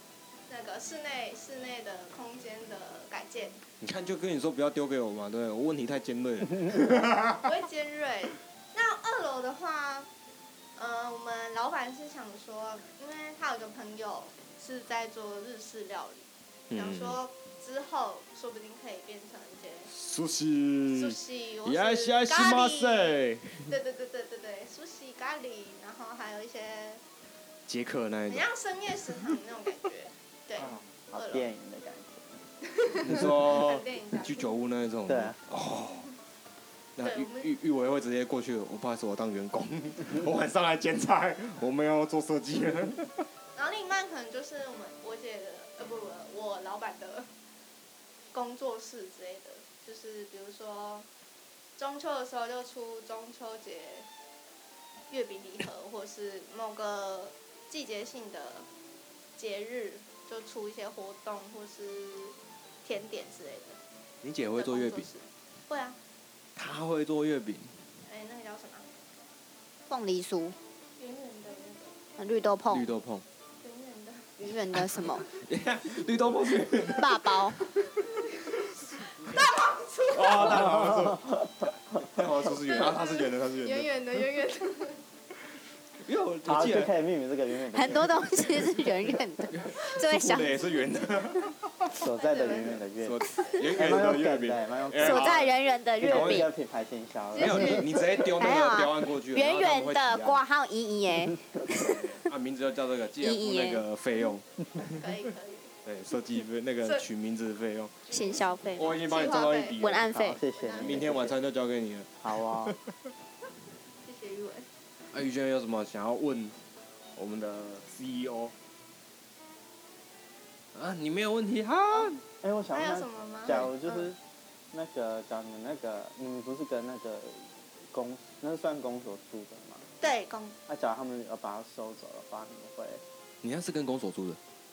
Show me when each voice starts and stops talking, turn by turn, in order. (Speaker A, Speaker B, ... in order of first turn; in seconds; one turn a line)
Speaker A: 0.5-3.6
Speaker B: 3.8-7.4
Speaker A: 7.4-10.1
Speaker A: 10.8-19.9
Speaker B: 16.7-17.2
Speaker B: 19.9-23.7
Speaker A: 20.9-23.1
Speaker A: 23.7-27.0
Speaker B: 27.7-28.4
Speaker A: 28.3-31.5
Speaker C: 30.6-32.4
Speaker A: 32.8-34.5
Speaker B: 33.0-36.1
Speaker C: 35.1-35.4
Speaker B: 37.0-43.2
Speaker A: 37.0-37.5
Speaker A: 43.5-47.3
Speaker A: 48.3-51.1
Speaker A: 51.8-54.1
Speaker A: 55.1-58.7
Speaker A: 59.4-63.8
Speaker B: 64.2-65.1
Speaker A: 64.5-66.0
Speaker B: 66.5-67.8
Speaker A: 68.0-68.9
Speaker D: 69.9-70.5
Speaker A: 71.0-72.0
Speaker D: 72.2-72.9
Speaker B: 72.7-73.2
Speaker A: 73.6-74.4
Speaker D: 74.4-75.3
Speaker B: 74.7-77.4
Speaker D: 76.9-77.6
Speaker A: 78.0-80.7
Speaker B: 80.1-84.0
Speaker C: 80.4-81.6
Speaker A: 82.7-85.0
Speaker B: 86.0-86.9
Speaker C: 86.4-88.5
Speaker D: 87.7-90.6
Speaker B: 89.5-91.9
Speaker C: 91.9-98.3
Speaker A: 92.1-92.8
Speaker B: 93.0-96.5
Speaker A: 93.3-93.7
Speaker D: 94.9-96.5
Speaker B: 97.3-100.4
Speaker A: 97.4-97.7
Speaker D: 97.4-97.8
Speaker D: 98.4-102.0
Speaker B: 101.7-105.1
Speaker D: 103.2-103.8
Speaker A: 105.0-105.7
Speaker B: 105.8-108.0
Speaker A: 108.0-109.8
Speaker D: 108.1-109.0
Speaker B: 108.8-110.1
Speaker D: 109.8-110.4
Speaker C: 110.1-111.4
Speaker A: 110.5-111.2
Speaker B: 110.7-112.8
Speaker C: 112.2-112.8
Speaker A: 114.0-114.7
Speaker B: 115.1-116.5
Speaker B: 117.2-118.5
Speaker B: 120.7-122.2
Speaker A: 121.9-122.2
Speaker C: 122.4-124.2
Speaker A: 122.7-124.1
Speaker C: 124.7-129.9
Speaker A: 130.0-130.6
Speaker C: 130.7-133.0
Speaker B: 133.4-134.4